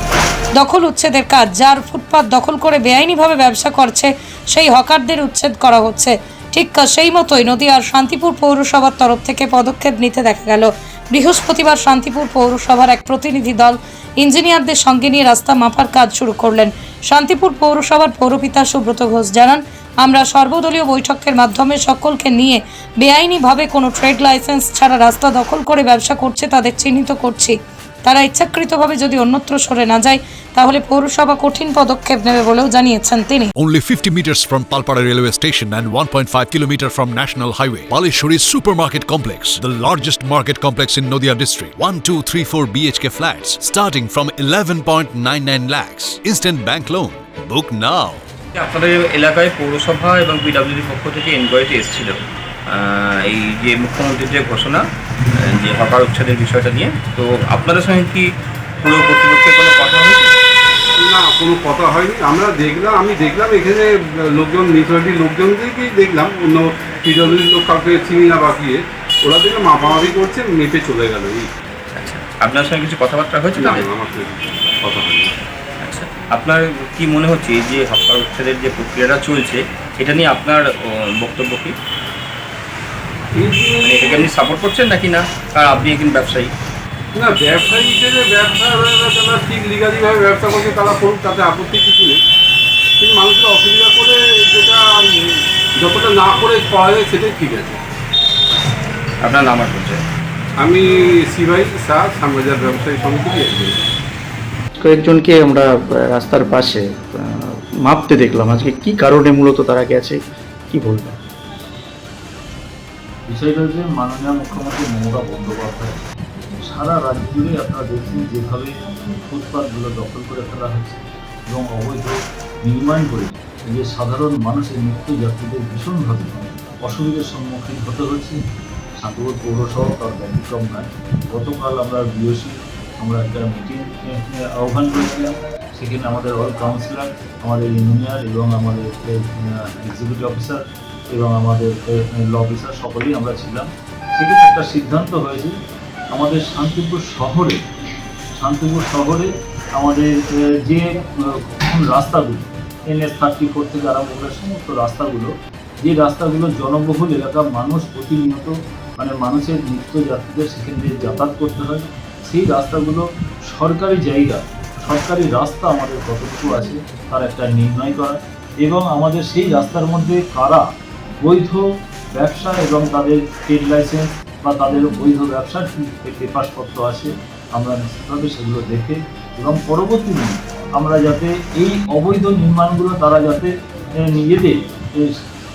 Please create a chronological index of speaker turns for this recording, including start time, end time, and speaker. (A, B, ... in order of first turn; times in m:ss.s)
0:00.5-0:33.5 A
0:33.6-0:48.2 B
0:48.6-0:54.8 C
0:55.4-0:58.3 C
0:58.8-1:00.3 C
1:01.0-1:11.5 D
1:11.9-1:13.9 C
1:13.6-1:15.3 D
1:15.8-1:21.7 C
1:23.3-1:24.3 D
1:23.8-1:26.5 C
1:27.1-1:32.2 D
1:33.0-1:37.8 D
1:39.2-1:40.0 C
1:40.6-1:43.7 D
1:44.8-1:47.0 E
1:47.8-1:50.2 E
1:50.7-1:51.1 E
1:53.3-1:56.0 F
1:56.6-1:58.7 F
1:59.2-2:08.4 F
2:09.0-2:25.5 F
2:26.1-2:27.6 F
2:28.4-2:50.7 F
2:51.2-3:03.5 F
3:04.0-3:05.2 F